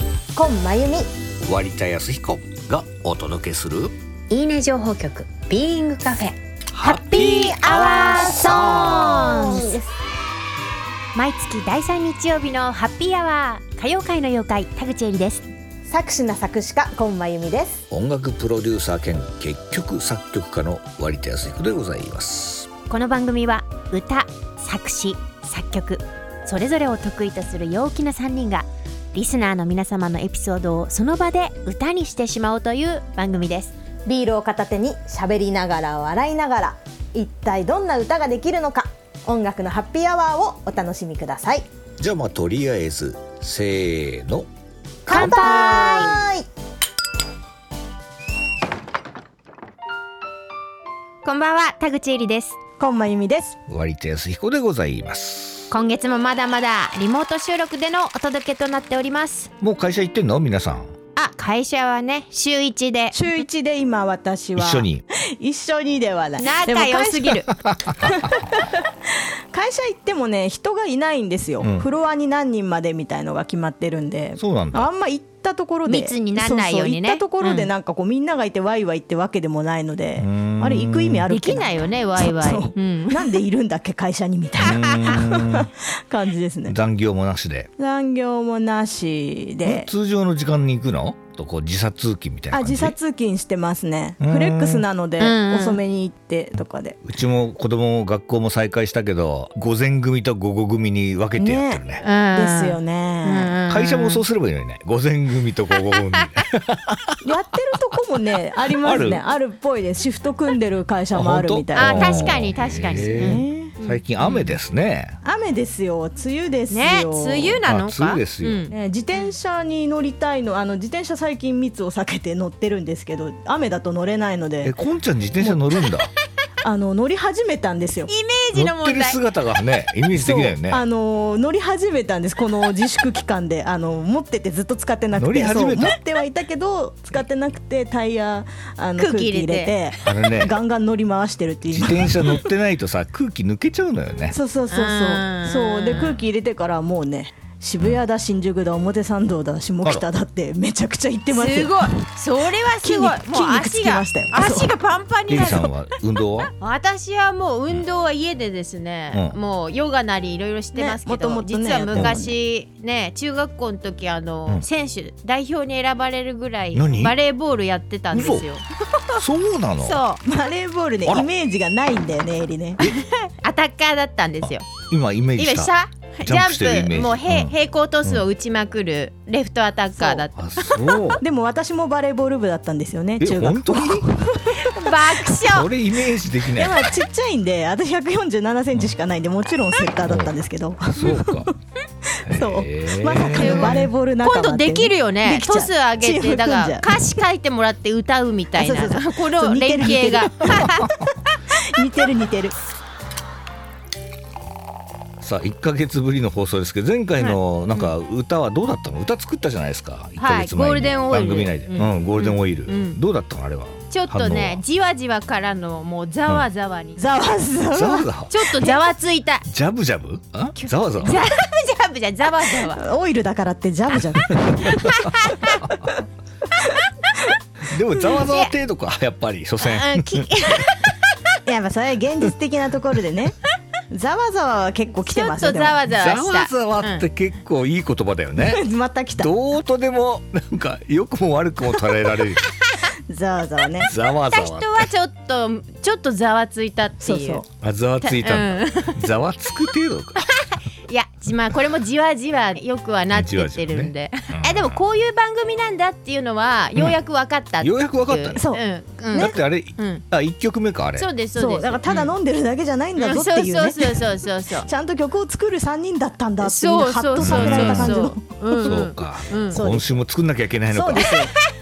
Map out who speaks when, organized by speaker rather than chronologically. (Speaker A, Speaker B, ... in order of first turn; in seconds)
Speaker A: 0.3-1.1, 6.8-9.9, 15.8-17.8, 34.0-41.7, 45.0-46.5, 52.8-53.6, 63.1-67.4, 68.0-86.8, 87.8-89.9, 92.5-97.0, 101.4-101.8, 102.3-103.5, 107.2-112.4, 113.1-113.7, 115.2-117.6, 118.7-124.7, 125.4-125.6, 126.6-128.1, 130.1-142.5, 144.3-151.9, 152.8-154.7, 160.7-162.3, 170.2-172.8, 180.0-180.2, 181.2-185.0, 186.5-191.5, 192.0-196.9, 198.5-200.7, 201.5-202.5, 217.0-218.8, 222.5-224.8, 231.4-233.4, 233.9-235.8, 238.4-239.3, 243.1-243.9, 247.0-247.4, 258.4-258.6, 261.3-264.1, 264.6-268.4, 269.5-269.9, 270.7-271.3
Speaker B: 1.4-3.9, 6.7-9.6, 17.9-22.7, 42.0-44.5, 45.1-45.5, 53.7-55.7, 59.6-60.9, 64.5-65.0, 67.5-68.3, 71.6-71.9, 74.4-74.9, 80.2-81.2, 84.6-85.7, 86.7-87.7, 89.6-92.9, 94.2-94.8, 97.0-102.0, 103.7-107.2, 108.8-109.2, 111.1-115.2, 117.7-118.7, 124.6-126.1, 128.5-130.8, 135.2-136.0, 140.0-140.5, 141.7-144.4, 155.3-156.5, 161.9-162.2, 166.7-167.2, 168.1-168.4, 169.1-170.0, 174.8-175.7, 176.2-178.2, 180.3-181.2, 183.2-184.2, 185.4-186.9, 190.1-190.3, 190.9-191.5, 192.2-193.9, 205.2-214.6, 217.7-218.3, 219.5-221.2, 224.6-225.9, 227.6-230.8, 235.9-242.4, 243.8-244.9, 247.6-250.3, 253.1-254.8, 257.6-258.4, 259.1-261.1, 267.2-268.0, 268.5-271.2
Speaker C: 4.3-9.7, 11.1-15.4, 22.9-33.7, 45.1-46.2, 51.2-52.6, 55.7-59.5, 61.1-63.2, 66.4-67.5, 75.8-77.7, 81.3-83.3, 95.2-95.8, 102.0-104.2, 111.7-114.5, 116.7-118.7, 128.1-129.2, 139.0-140.0, 144.7-146.2, 151.3-155.7, 156.5-169.2, 169.8-170.2, 172.8-174.7, 175.4-180.3, 184.6-185.7, 193.3-200.9, 207.2-207.9, 210.2-213.0, 213.9-217.2, 218.3-219.4, 220.6-222.8, 224.6-225.6, 226.7-227.2, 228.1-228.5, 229.6-231.3, 235.0-237.0, 244.3-247.4, 248.0-249.1, 250.4-260.0, 261.0-262.1, 263.0-264.7, 266.4-269.6